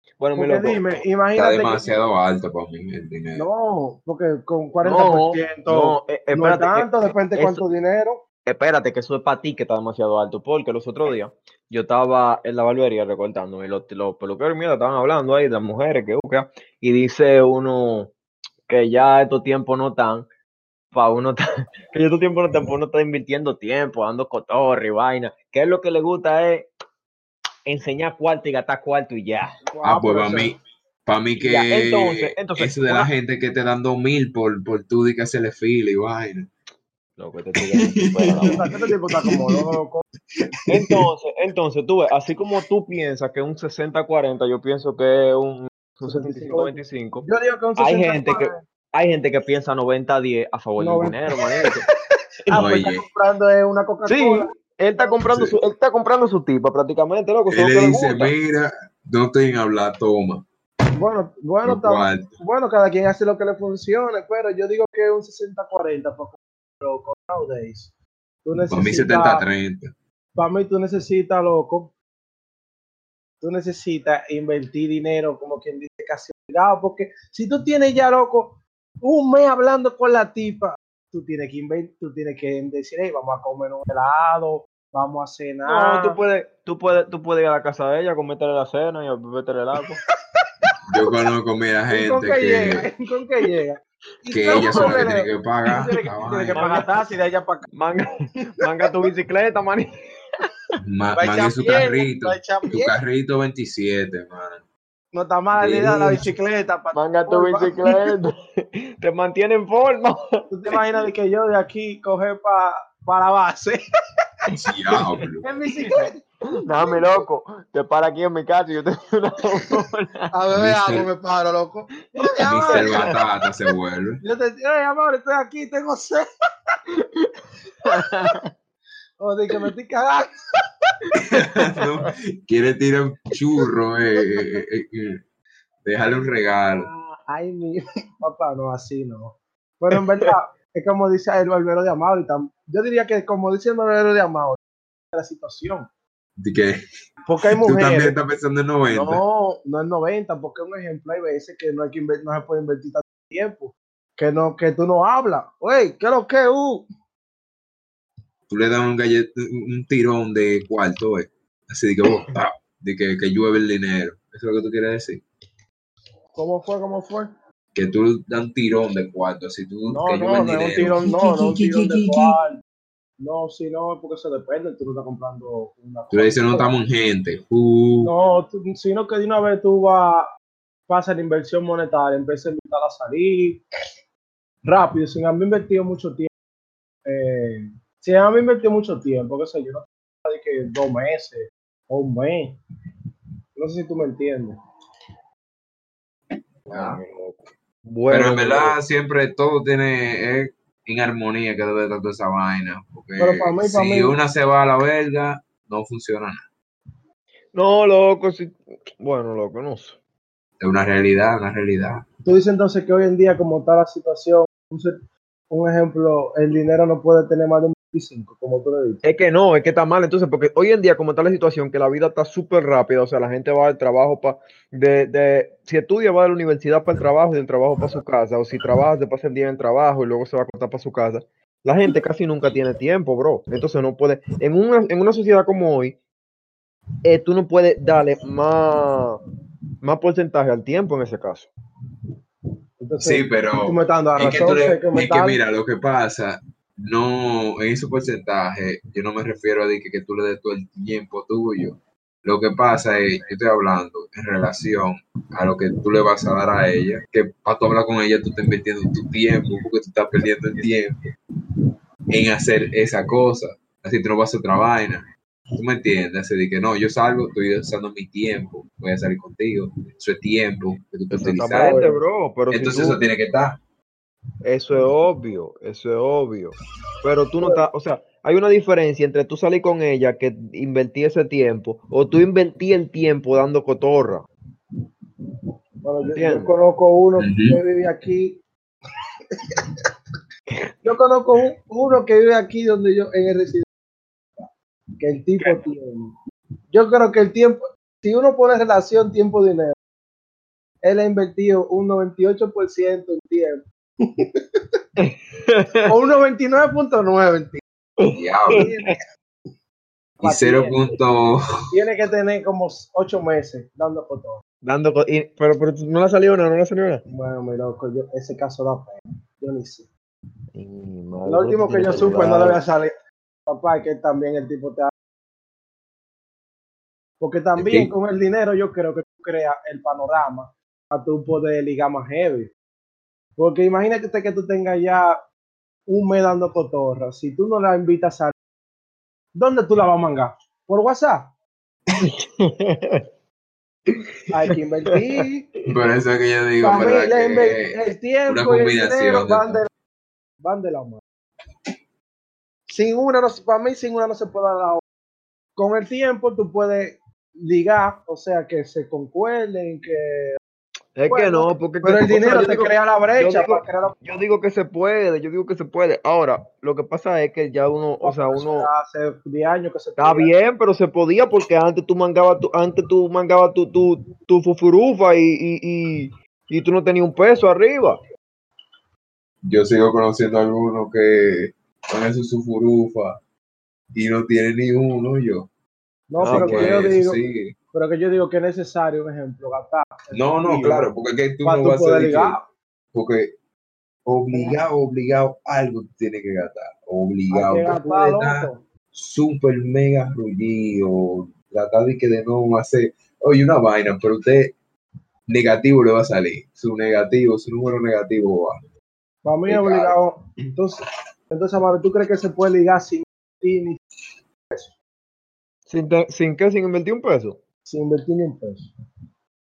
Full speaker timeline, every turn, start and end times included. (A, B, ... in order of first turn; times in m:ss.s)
0:00.2-0:00.9 A
0:00.4-0:01.9 B
0:01.4-0:03.5 C
0:03.3-0:08.2 B
0:04.8-0:07.6 A
0:08.4-0:18.1 A
0:18.7-0:20.3 A
0:20.9-0:26.7 A
0:27.6-0:29.6 A
0:29.6-0:30.5 B
0:29.8-0:36.5 C
0:31.4-0:33.1 A
0:37.2-0:38.7 A
0:37.6-0:38.6 C
0:38.4-0:40.0 B
0:39.2-0:39.6 C
0:40.6-0:41.0 C
0:40.7-0:47.2 A
0:46.0-0:48.6 B
0:47.8-0:51.8 A
0:50.8-0:51.2 B
0:52.5-0:55.2 B
0:52.5-0:53.0 C
0:54.0-0:58.3 A
0:55.2-0:55.6 C
0:57.5-1:00.4 C
1:01.0-1:07.9 B
1:01.6-1:02.3 C
1:08.4-1:09.4 B
1:08.7-1:09.9 C
1:10.4-1:11.9 B
1:13.4-1:26.2 B
1:25.6-1:30.0 A
1:30.9-1:32.9 C
1:31.9-1:37.6 B
1:34.3-1:36.6 C
1:34.6-1:35.1 A
1:36.5-1:36.9 A
1:37.7-1:39.9 A
1:40.8-1:44.6 C
1:41.2-1:42.9 B
1:45.1-1:48.0 B
1:45.5-1:46.2 C
1:46.9-1:50.8 A
1:50.5-1:53.8 B
1:54.5-1:55.5 C
1:55.4-1:56.2 B
1:56.6-2:00.3 A
1:56.7-1:57.2 B
2:00.3-2:03.1 B
2:00.5-2:01.1 C
2:02.3-2:03.2 A
2:02.4-2:04.2 C
2:04.2-2:06.3 B
2:07.8-2:08.5 A
2:09.2-2:10.3 B
2:11.2-2:15.2 C
2:15.8-2:16.9 C
2:16.7-2:24.6 B
2:25.1-2:25.9 B
2:26.4-2:26.8 C
2:27.2-2:28.2 B
2:27.5-2:29.2 C
2:28.9-2:36.8 B
2:38.5-2:45.2 C
2:46.4-2:47.3 B
2:47.7-2:51.1 C
2:49.9-2:52.6 B
2:53.2-2:56.7 B
2:56.1-2:58.1 C
2:58.0-3:00.3 B
3:00.9-3:03.6 B
3:04.6-3:06.3 B
3:07.0-3:12.6 B
3:13.6-3:14.6 B
3:16.7-3:17.0 C
3:16.7-3:18.8 A
3:18.1-3:26.4 C
3:23.2-3:24.2 B
3:27.5-3:30.0 A
3:30.6-3:32.0 C
3:32.2-3:34.9 B
3:35.5-3:39.0 B
3:39.0-3:56.0 A
3:57.0-3:59.2 A
3:59.8-4:01.5 A
4:02.8-4:05.4 B
4:03.0-4:21.0 C
4:22.1-4:31.8 C
4:31.1-4:33.0 A
4:31.5-4:32.0 B
4:32.5-4:33.6 C
4:34.4-4:44.2 A
4:45.8-4:48.4 B
4:46.2-4:46.5 A
4:47.2-4:47.6 C
4:50.8-4:53.6 B
4:55.0-4:56.1 B
4:56.7-4:59.7 B
5:00.8-5:04.4 B
5:05.0-5:05.9 A
5:05.8-5:07.6 B
5:08.0-5:08.9 A
5:08.1-5:08.7 C
5:08.5-5:09.0 B
5:10.2-5:11.4 C
5:10.2-5:10.9 B
5:11.7-5:14.4 B
5:14.6-5:17.0 A
5:17.1-5:19.9 B
5:20.5-5:22.6 A
5:21.2-5:22.9 B
5:23.5-5:24.9 B
5:27.2-5:32.5 B
5:27.6-5:27.9 C
5:33.4-5:35.2 B
5:35.9-5:38.3 B
5:39.4-5:41.3 B
5:42.0-5:43.0 A
5:44.3-5:45.5 B
5:45.6-5:49.6 C
5:46.6-5:49.7 B
5:50.4-5:51.0 B
5:52.7-5:54.8 B
5:55.6-6:00.4 B
6:01.0-6:08.7 A
6:01.1-6:04.0 B
6:08.0-6:10.3 B
6:10.0-6:18.0 A
6:19.4-6:23.2 C
6:23.9-6:25.5 C
6:26.1-6:27.2 B
6:26.2-6:26.8 A
6:26.2-6:27.5 C
6:27.7-6:30.9 B
6:30.1-6:32.4 C
6:31.4-6:32.4 B
6:32.9-6:33.3 C
6:34.0-6:44.5 C
6:37.3-6:38.6 B
6:45.3-6:48.6 C
6:49.2-6:53.8 B
6:49.5-6:50.0 C
6:55.7-6:57.4 A
6:57.6-6:58.7 B